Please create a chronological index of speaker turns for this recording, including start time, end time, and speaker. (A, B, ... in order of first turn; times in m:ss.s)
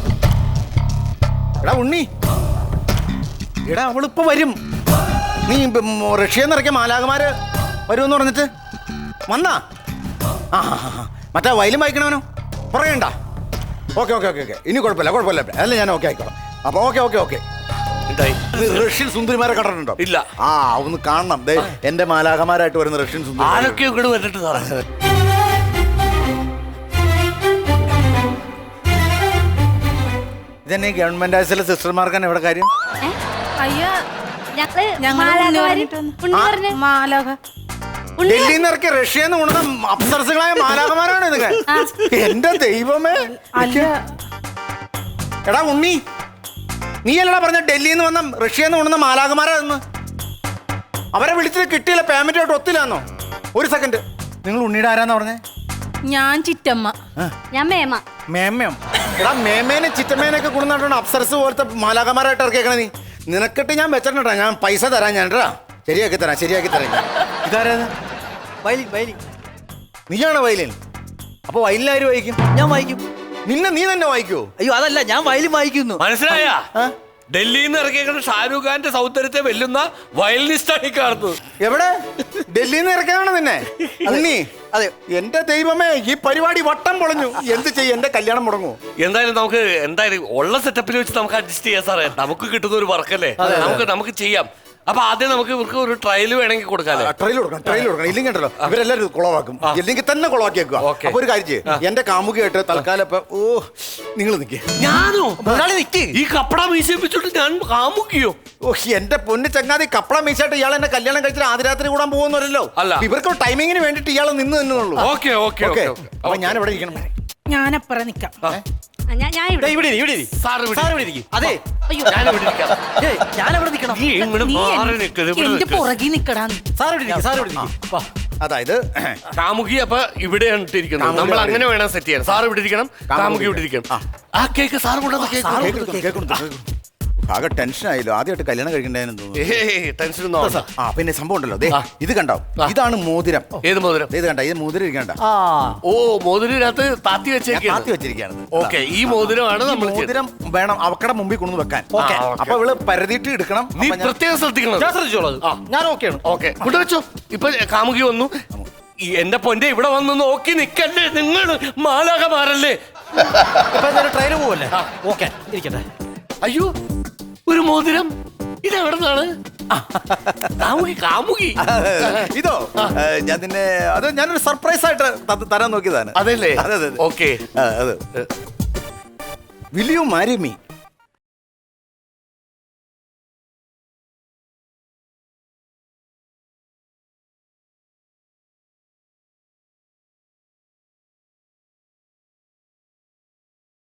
0:01.6-0:02.1 A
0:03.7-0:04.6 A
0:05.5-0:07.4 A
0:07.9-0:08.5 A
0:09.3-0:09.6 A
0:10.5-0:13.1 A
0:13.9-0:17.4 A
0:18.1-0:18.9 B
0:18.5-0:23.8 A
0:20.0-0:20.2 B
0:23.4-0:24.8 B
0:30.6-0:32.7 A
0:34.5-0:36.8 C
0:35.1-0:36.1 D
0:36.3-0:36.6 A
0:36.8-0:37.3 D
0:38.2-0:38.6 C
0:38.2-0:43.9 A
0:41.7-0:42.0 C
0:45.5-0:46.0 A
0:47.0-0:49.8 A
0:51.1-0:55.4 A
0:56.1-0:56.9 D
0:57.5-0:58.0 C
0:58.3-1:07.9 A
1:08.6-1:09.2 E
1:10.1-1:10.8 A
1:11.5-1:12.6 A
1:12.6-1:13.0 E
1:13.5-1:14.5 A
1:14.6-1:16.0 E
1:16.0-1:16.7 B
1:17.3-1:21.4 B
1:21.6-1:28.8 A
1:24.0-1:24.9 E
1:29.0-1:37.1 B
1:33.4-1:33.8 A
1:33.4-1:33.8 E
1:36.9-1:44.7 A
1:40.8-1:41.8 B
1:44.8-1:45.5 B
1:45.4-1:46.2 E
1:46.1-1:48.4 B
1:48.6-1:57.1 A
1:52.8-1:53.1 B
1:55.0-1:56.6 B
1:57.5-1:58.4 D
1:59.1-1:59.8 C
1:59.6-2:01.7 E
2:00.4-2:01.6 B
2:02.1-2:02.8 B
2:02.9-2:04.9 E
2:04.1-2:06.0 B
2:04.5-2:04.8 D
2:05.4-2:06.6 D
2:05.7-2:08.1 E
2:08.4-2:09.2 A
2:09.3-2:15.8 B
2:11.0-2:11.7 A
2:13.1-2:14.0 A
2:15.2-2:16.7 A
2:15.4-2:16.2 E
2:17.2-2:19.6 A
2:19.4-2:20.7 B
2:20.8-2:23.6 A
2:23.6-2:24.1 B
2:24.1-2:25.2 A
2:25.2-2:25.8 E
2:25.9-2:27.9 B
2:27.5-2:34.2 A
2:28.5-2:30.1 B
2:31.9-2:32.2 E
2:32.0-2:32.6 B
2:33.8-2:35.6 B
2:34.8-2:36.2 E
2:36.2-2:38.4 B
2:39.1-2:43.7 B
2:43.7-2:45.9 E
2:46.4-2:46.7 B
2:47.5-2:49.3 B
2:49.7-2:50.6 A
2:50.6-2:53.0 B
2:51.6-2:57.0 A
2:56.2-2:57.4 B
2:57.5-2:58.0 A
2:59.7-3:00.6 A